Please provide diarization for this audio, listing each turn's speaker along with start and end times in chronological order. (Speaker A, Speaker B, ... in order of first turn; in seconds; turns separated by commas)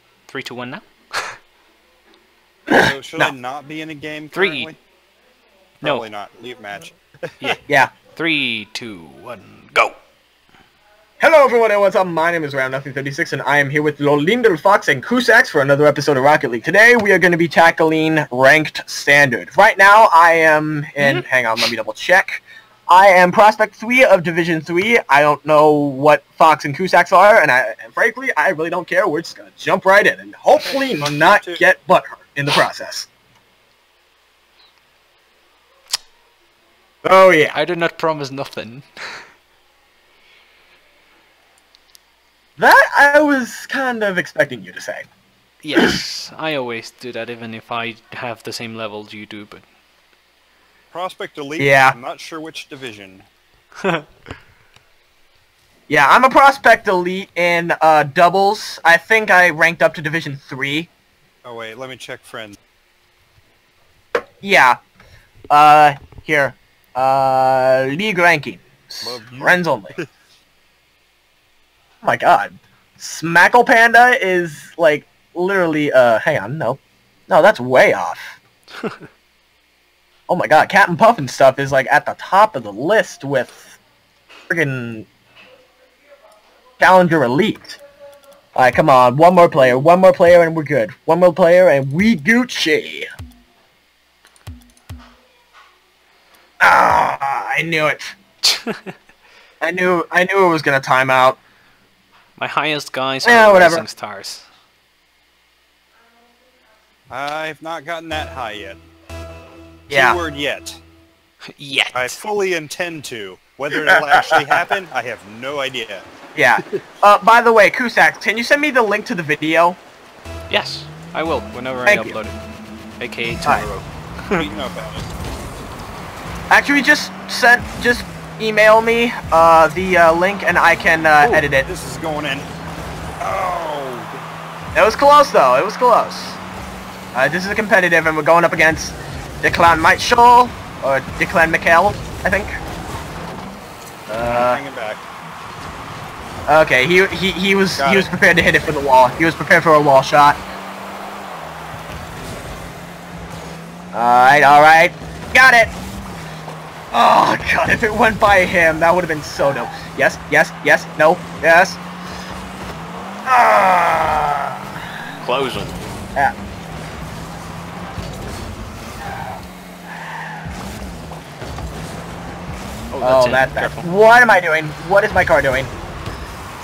Speaker A: 0.3-1.3, Speaker B: 2.7-3.3, Speaker C: 2.7-4.8, Speaker A: 4.3-4.7, Speaker A: 5.8-6.1, Speaker C: 5.8-7.5, Speaker B: 7.7-7.9, Speaker A: 8.2-10.0, Speaker B: 11.2-33.1, Speaker A: 21.0-21.7, Speaker C: 30.6-31.6, Speaker B: 37.0-37.6, Speaker A: 37.5-38.9, Speaker B: 42.6-45.1, Speaker A: 45.6-49.6, Speaker C: 50.9-53.3, Speaker B: 51.6-52.0, Speaker B: 55.9-60.9, Speaker C: 61.5-62.6, Speaker B: 64.4-64.8, Speaker B: 65.5-70.0, Speaker C: 69.0-70.0, Speaker B: 72.0-78.4, Speaker B: 80.3-83.8, Speaker B: 84.5-85.1, Speaker B: 86.8-87.8, Speaker B: 88.5-93.1, Speaker B: 96.6-98.2, Speaker A: 98.4-98.8, Speaker B: 99.6-101.4, Speaker A: 102.4-104.5, Speaker B: 103.2-103.9, Speaker C: 107.1-108.8, Speaker C: 109.9-110.8, Speaker B: 109.9-110.2, Speaker A: 111.5-112.2, Speaker C: 111.9-116.1, Speaker B: 113.7-114.5, Speaker B: 116.3-119.8, Speaker A: 120.5-122.4, Speaker B: 121.8-122.2, Speaker A: 123.0-124.5, Speaker C: 124.3-125.0, Speaker B: 126.5-131.7, Speaker C: 131.6-132.5, Speaker C: 133.2-134.2, Speaker B: 134.7-136.4, Speaker B: 137.2-142.6, Speaker B: 144.1-144.6, Speaker C: 144.2-145.0, Speaker B: 146.5-150.4, Speaker C: 147.8-148.1, Speaker B: 153.9-155.7, Speaker B: 156.9-161.8, Speaker B: 163.3-164.8, Speaker A: 165.2-165.8, Speaker A: 172.9-173.9, Speaker B: 173.0-175.7